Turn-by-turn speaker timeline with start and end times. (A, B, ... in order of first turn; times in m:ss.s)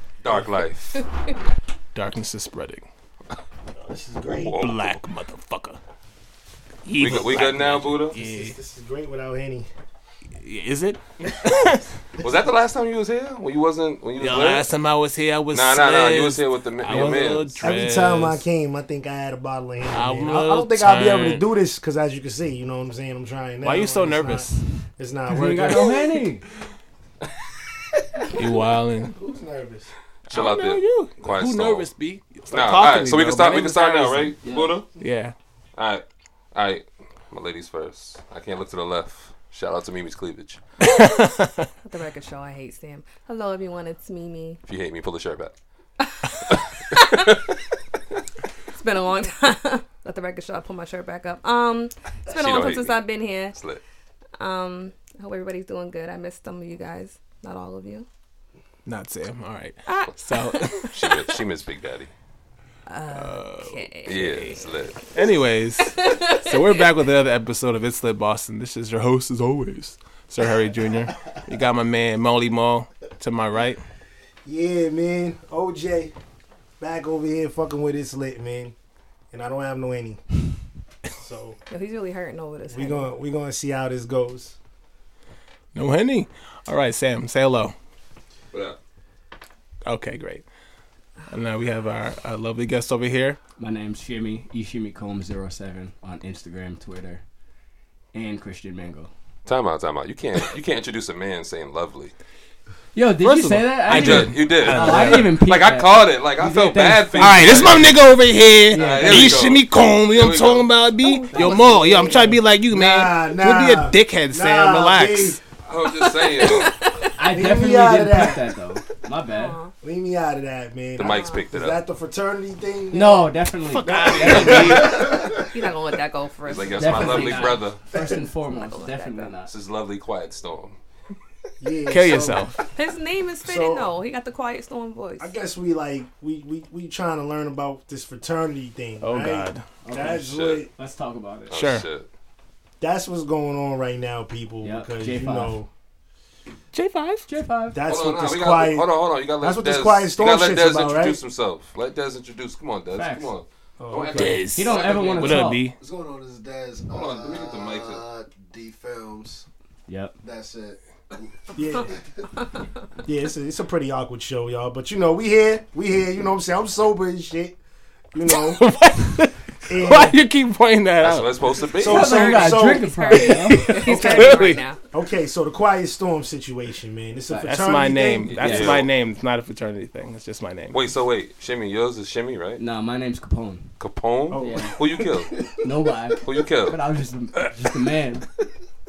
0:00.2-0:01.0 A
0:00.9-0:01.3 B
0:01.9-0:02.8 C
0:03.8-0:04.6 D
0:04.4-0:04.8 A
0:04.5-0:05.8 C
0:06.8-0:08.6 C
0:07.0-0:08.1 A
0:08.2-0:09.7 D
0:10.4-0:11.9 C
0:12.2-0:14.7 A
0:14.2-0:18.4 C
0:15.5-0:17.6 A
0:16.9-0:26.0 D
0:19.9-0:21.4 C
0:23.6-0:24.6 C
0:25.3-0:26.4 E
0:28.3-0:29.2 C
0:29.0-0:29.9 D
0:30.3-0:34.4 C
0:30.3-0:31.9 A
0:32.5-0:34.9 A
0:35.0-0:35.3 C
0:35.8-0:36.0 A
0:36.5-0:40.6 A
0:40.8-0:41.7 C
0:41.8-0:44.6 B
0:44.7-0:45.5 A
0:46.0-0:47.2 B
0:46.5-0:47.5 A
0:48.7-0:53.6 B
0:52.3-0:53.0 A
0:53.5-0:53.8 A
0:54.4-0:58.1 B
0:58.8-1:01.2 C
0:59.9-1:00.9 B
1:00.9-1:02.1 A
1:02.9-1:04.6 B
1:03.1-1:04.6 C
1:04.0-1:05.0 A
1:05.1-1:13.8 C
1:05.8-1:06.8 B
1:14.4-1:16.1 D
1:16.8-1:18.7 D
1:19.3-1:20.2 D
1:21.1-1:21.6 D
1:21.7-1:23.1 B
1:22.7-1:24.5 D
1:25.7-1:27.7 C
1:28.5-1:28.8 A
1:29.8-1:30.4 C
1:31.3-1:33.4 C
1:33.6-1:37.2 E
1:38.1-1:39.1 E
1:39.4-1:42.1 A
1:42.9-1:47.8 E
1:43.2-1:45.4 C
1:43.9-1:48.0 A
1:47.2-1:55.4 C
1:48.7-1:49.4 E
1:48.7-1:50.7 A
1:51.0-1:51.6 B
1:51.3-1:52.4 E
1:52.1-1:55.4 D
1:55.6-1:56.7 A
1:55.9-1:57.1 B
1:57.2-1:59.6 E
1:57.3-1:58.4 D
1:59.3-1:59.7 B
1:59.8-2:03.3 D
2:01.0-2:01.8 A
2:01.0-2:01.4 B
2:02.9-2:04.9 E
2:03.6-2:05.1 C
2:03.8-2:05.7 D
2:04.4-2:05.0 A
2:05.4-2:07.6 B
2:06.4-2:07.8 A
2:06.7-2:09.5 E
2:07.9-2:08.2 D
2:08.5-2:09.3 B
2:09.5-2:10.8 A
2:11.6-2:12.6 D
2:11.8-2:12.6 C
2:12.6-2:15.3 B
2:13.4-2:13.9 D
2:15.2-2:20.7 D
2:19.0-2:19.6 C
2:19.8-2:21.6 E
2:20.2-2:20.6 A
2:21.5-2:22.1 A
2:21.5-2:21.8 C
2:22.8-2:25.7 D
2:24.6-2:25.6 E
2:26.7-2:27.2 C
2:27.3-2:27.8 E
2:27.7-2:28.9 D
2:27.8-2:35.4 A
2:29.4-2:31.2 D
2:32.9-2:33.3 E
2:33.8-2:34.4 D
2:34.1-2:35.8 C
2:34.5-2:35.6 E
2:35.4-2:39.5 F
2:36.9-2:38.0 A
2:39.9-2:40.1 E
2:40.2-2:42.0 F
2:41.5-2:41.9 D
2:43.0-2:47.6 D
2:48.1-2:48.6 D
2:48.3-2:51.6 C
2:49.6-2:50.2 D
2:51.0-2:52.3 A
2:51.7-2:58.4 D
2:51.8-2:53.8 E
2:52.2-2:54.8 B
2:53.6-2:54.6 C
2:57.3-3:00.8 C
2:58.3-2:58.9 A
2:58.4-2:58.8 E
3:00.7-3:02.6 A
3:02.6-3:03.7 E
3:03.8-3:05.4 A
3:04.3-3:04.7 D
3:04.4-3:04.7 E
3:05.6-3:08.2 E
3:06.2-3:06.8 A